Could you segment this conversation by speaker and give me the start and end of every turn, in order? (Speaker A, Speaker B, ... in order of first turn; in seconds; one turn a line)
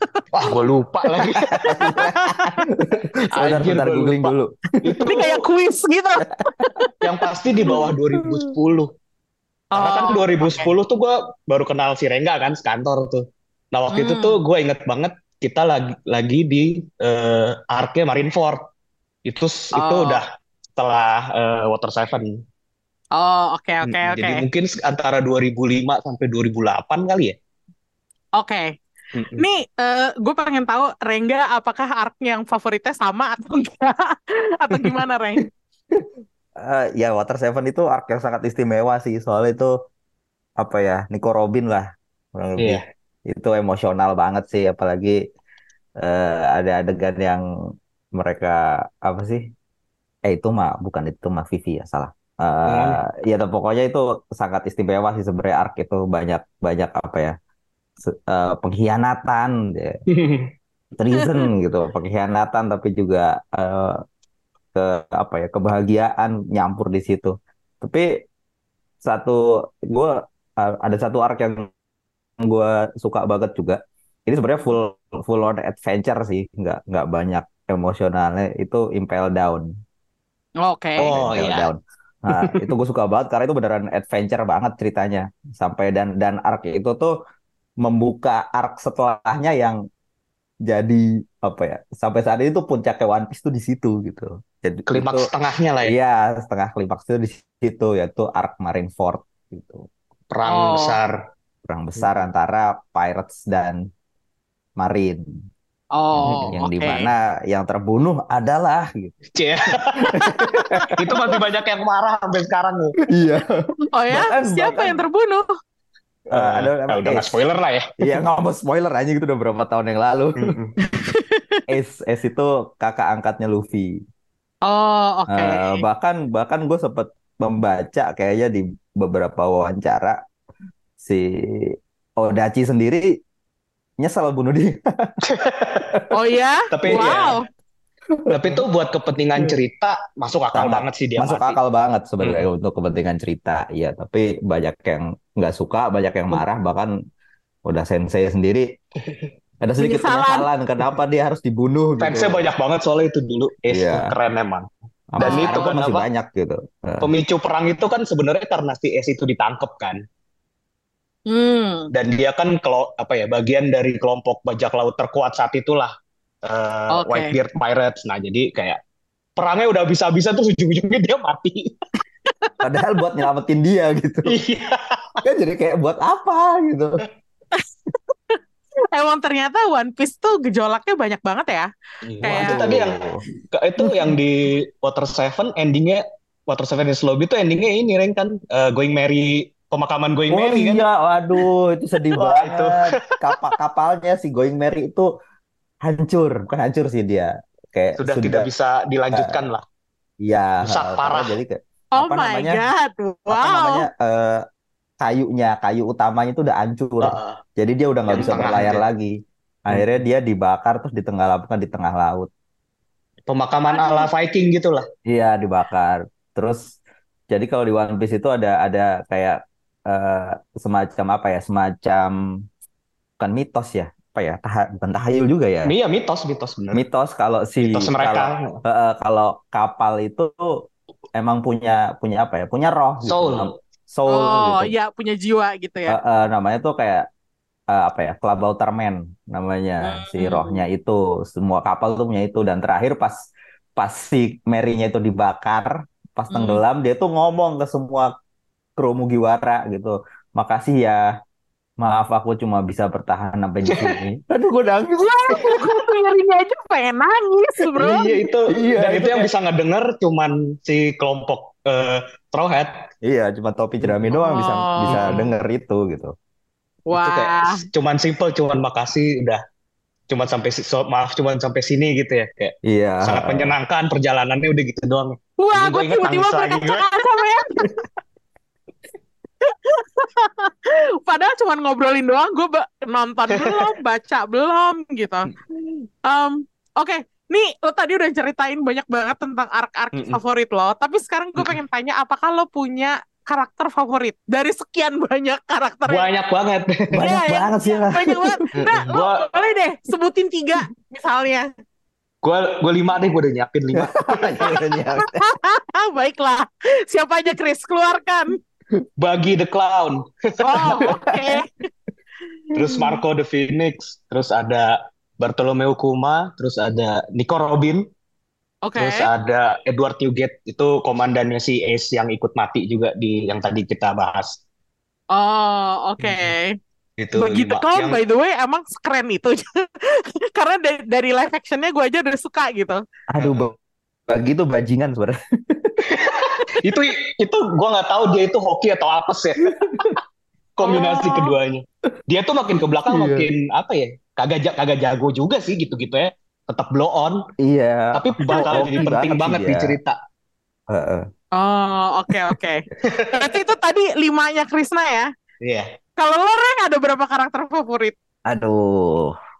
Speaker A: 0.3-1.9
Speaker B: 1.6-2.6
Speaker C: 1.7-5.0
Speaker A: 3.3-5.4
Speaker B: 5.0-7.0
Speaker A: 7.0-8.9
Speaker B: 9.7-10.7
Speaker A: 9.8-18.6
Speaker B: 13.9-14.4
Speaker A: 19.2-20.2
Speaker B: 19.7-20.2
Speaker A: 20.8-22.3
Speaker B: 23.2-24.4
Speaker A: 23.8-27.3
Speaker B: 28.4-28.7
Speaker A: 29.1-29.4
Speaker B: 29.4-35.4
Speaker C: 36.6-39.7
Speaker C: 40.6-45.2
Speaker C: 46.0-47.4
Speaker C: 48.2-49.4
Speaker C: 50.2-57.3
Speaker A: 52.7-53.0
Speaker C: 58.0-59.9
Speaker A: 60.1-60.5
Speaker C: 61.0-64.0
Speaker C: 64.7-68.1
Speaker C: 69.0-71.7
Speaker C: 72.4-79.7
Speaker B: 80.6-81.1
Speaker A: 81.0-81.7
Speaker C: 81.1-87.1
Speaker A: 82.3-82.6
Speaker C: 87.8-89.8
Speaker C: 90.7-95.3
Speaker A: 94.9-95.9
Speaker C: 95.8-99.8
Speaker A: 100.3-101.1
Speaker B: 100.5-101.0
Speaker C: 101.7-103.8
Speaker C: 104.8-105.2
Speaker B: 106.0-107.1
Speaker C: 106.1-109.1
Speaker A: 106.2-106.5
Speaker A: 109.3-110.3
Speaker C: 110.0-111.3
Speaker A: 110.9-113.0
Speaker C: 113.1-113.5
Speaker B: 113.9-115.5
Speaker C: 114.1-115.0
Speaker C: 116.3-117.3
Speaker A: 116.3-117.8
Speaker C: 118.0-120.5
Speaker A: 120.4-120.7
Speaker B: 121.1-121.6
Speaker C: 121.7-123.9
Speaker B: 124.6-125.8
Speaker C: 125.3-130.2
Speaker C: 131.0-133.1
Speaker C: 134.0-135.1
Speaker A: 135.2-135.9
Speaker B: 136.1-137.4
Speaker A: 136.7-137.4
Speaker C: 138.3-138.6
Speaker A: 138.3-141.6
Speaker C: 140.5-146.9
Speaker A: 142.2-142.5
Speaker C: 147.7-148.6
Speaker A: 149.0-149.3
Speaker C: 149.6-152.5
Speaker B: 149.8-150.4
Speaker A: 152.0-154.7
Speaker C: 153.7-154.1
Speaker C: 155.1-157.1
Speaker A: 155.2-156.1
Speaker B: 155.2-155.5
Speaker A: 157.0-160.0
Speaker B: 161.3-161.9
Speaker A: 161.9-165.9
Speaker A: 166.4-168.8
Speaker B: 166.9-167.3
Speaker A: 169.4-171.7
Speaker C: 172.6-174.4
Speaker A: 174.3-175.2
Speaker C: 175.2-177.0
Speaker B: 178.9-181.7
Speaker A: 182.1-183.0
Speaker B: 182.2-182.6
Speaker C: 182.2-183.2
Speaker A: 183.5-190.8
Speaker C: 183.8-184.1
Speaker C: 190.3-195.1
Speaker A: 192.1-193.2
Speaker C: 195.8-198.5
Speaker A: 198.0-199.6
Speaker C: 200.2-202.6
Speaker A: 200.7-201.4
Speaker B: 202.0-203.9
Speaker C: 203.3-204.4
Speaker C: 205.0-209.1
Speaker A: 207.0-207.4
Speaker A: 208.1-208.8
Speaker C: 209.7-212.3
Speaker A: 209.7-210.0
Speaker A: 213.3-214.8
Speaker B: 213.7-214.1
Speaker C: 215.1-216.7
Speaker C: 217.3-219.4
Speaker C: 219.9-222.1
Speaker C: 223.2-225.7
Speaker A: 225.7-226.8
Speaker C: 226.7-230.3
Speaker A: 227.6-228.6
Speaker C: 231.2-234.7
Speaker A: 233.0-233.5
Speaker B: 234.1-236.0
Speaker C: 235.9-237.1
Speaker C: 237.7-243.2
Speaker B: 239.8-240.6
Speaker C: 243.8-248.1
Speaker B: 246.3-246.6
Speaker C: 248.8-251.0
Speaker C: 251.8-255.7
Speaker A: 253.7-254.0
Speaker B: 255.0-258.1
Speaker A: 257.8-262.7
Speaker C: 258.5-259.3
Speaker C: 263.0-266.1
Speaker B: 264.1-265.2
Speaker B: 266.9-267.6
Speaker A: 266.9-269.4
Speaker A: 270.1-276.9
Speaker C: 272.6-273.5
Speaker B: 275.4-277.6
Speaker B: 279.4-285.3
Speaker A: 283.3-283.6
Speaker B: 286.1-296.1
Speaker A: 289.9-290.2
Speaker A: 295.9-297.0
Speaker C: 296.9-298.5
Speaker B: 297.0-301.5
Speaker A: 298.6-299.2
Speaker A: 302.2-304.5
Speaker C: 303.8-305.2
Speaker B: 304.5-308.4
Speaker A: 309.0-311.0
Speaker B: 310.4-311.5
Speaker A: 312.5-317.8
Speaker B: 318.6-319.0
Speaker A: 318.8-324.4
Speaker B: 325.1-326.6
Speaker A: 326.0-326.3
Speaker A: 327.0-328.0
Speaker B: 327.1-332.8
Speaker C: 333.1-333.5
Speaker A: 333.2-333.5
Speaker C: 334.1-335.8
Speaker A: 335.9-340.0
Speaker A: 340.6-347.2
Speaker B: 340.6-341.3
Speaker C: 342.9-343.3
Speaker C: 347.4-349.7
Speaker A: 347.9-349.9
Speaker B: 348.3-348.9
Speaker C: 350.7-351.0
Speaker B: 351.4-352.6
Speaker A: 352.8-353.4
Speaker B: 353.1-355.1
Speaker A: 355.4-355.7
Speaker B: 356.0-357.9
Speaker C: 358.3-359.1